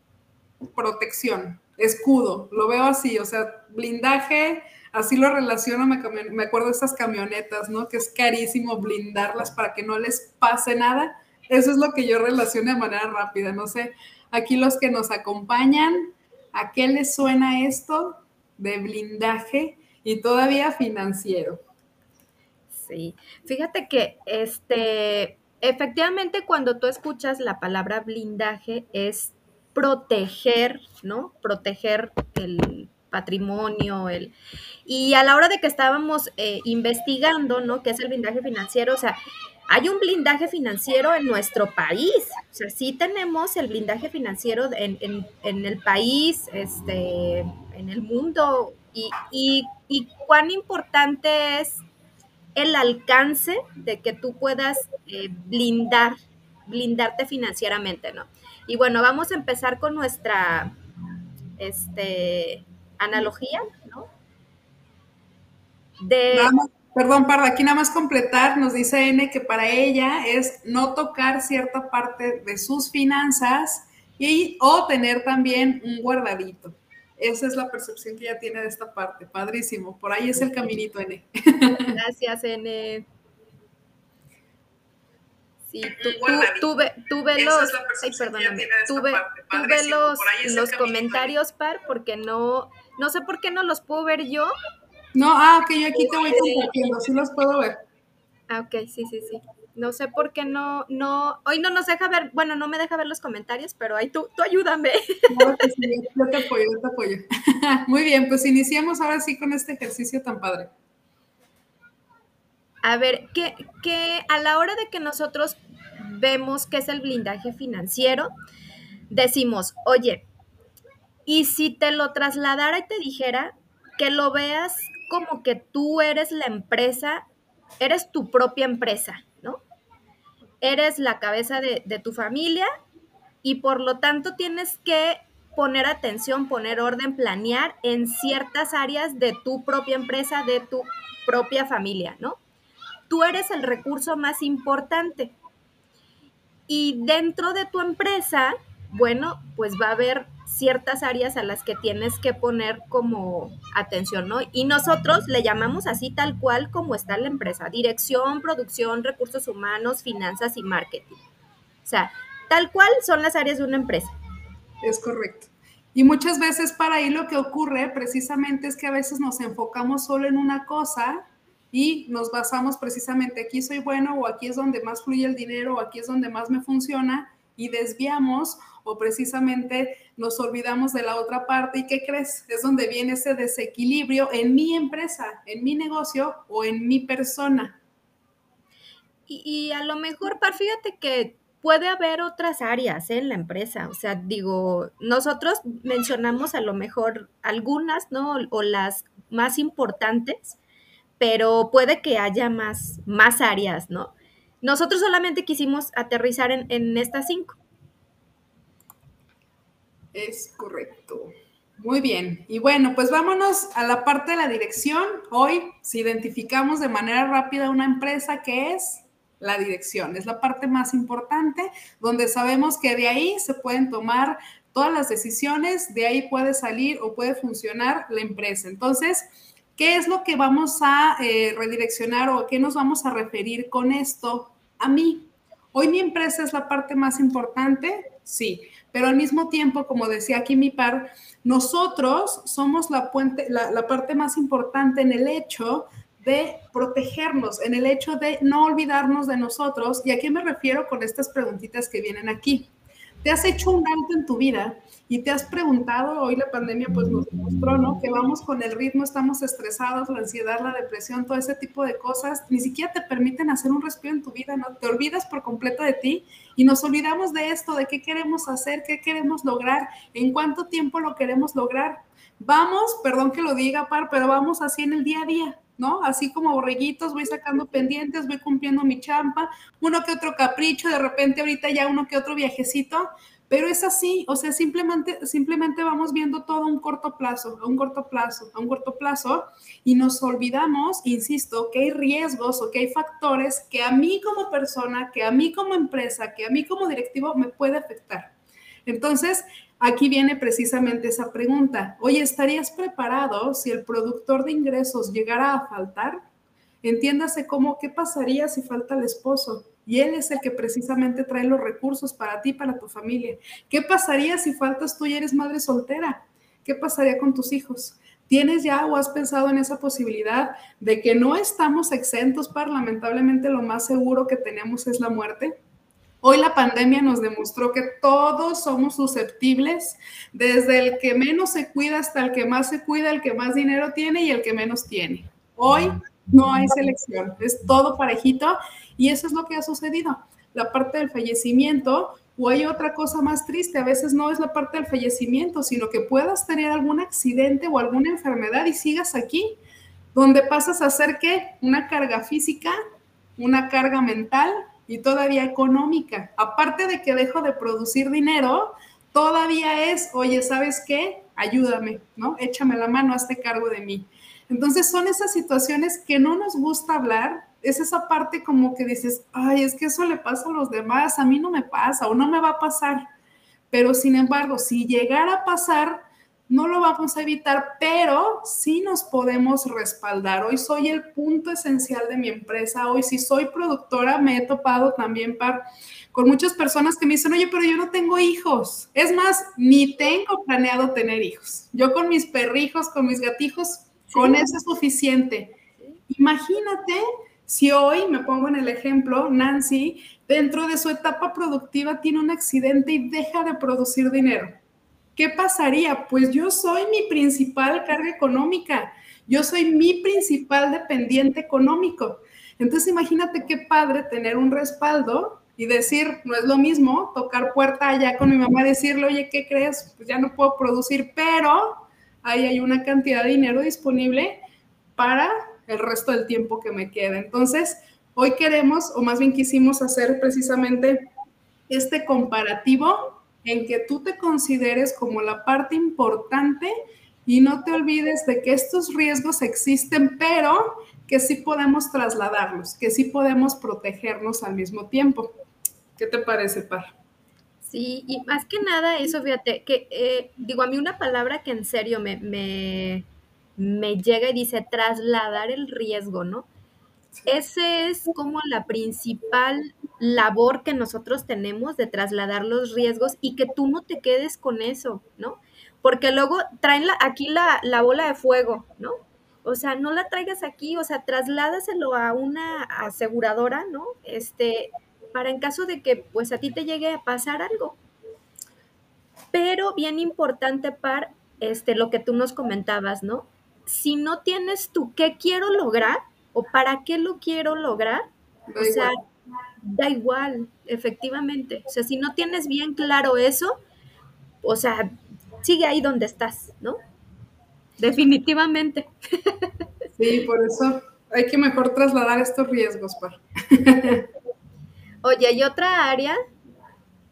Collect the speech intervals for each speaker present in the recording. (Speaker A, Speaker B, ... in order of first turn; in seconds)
Speaker A: 0.7-21.6, 66.3-82.0, 85.9-86.7, 87.4-91.4, 95.2-97.8, 105.3-110.7, 164.8-187.8, 210.1-252.7, 253.2-298.3, 298.9-306.2, 306.8-325.6, 326.2-349.6, 350.1-352.8, 353.4-373.1, 373.7-395.6, 396.1-404.6, 405.2-424.4, 425.0-431.1, 431.7-436.7, 437.3-445.4, 446.0-446.9, 488.5-488.9, 500.0-504.1
Speaker B: 22.7-34.3, 34.9-39.2, 39.7-51.9, 52.5-60.8, 61.6-64.1, 66.0-66.5, 81.9-83.1, 85.7-94.5, 96.1-96.7, 98.5-105.9, 112.8-118.3, 119.1-120.3, 121.3-127.3, 127.8-129.6, 130.6-132.7, 133.4-142.4, 143.1-145.3, 146.7-161.2, 161.8-164.1, 189.3-200.6, 201.2-207.6, 394.1-394.5, 447.6-453.1, 453.6-456.5, 457.3-477.8, 479.3-488.1, 488.6-489.0, 489.6-493.6, 494.4-494.9, 495.4-496.8, 497.8-499.5, 505.0-506.2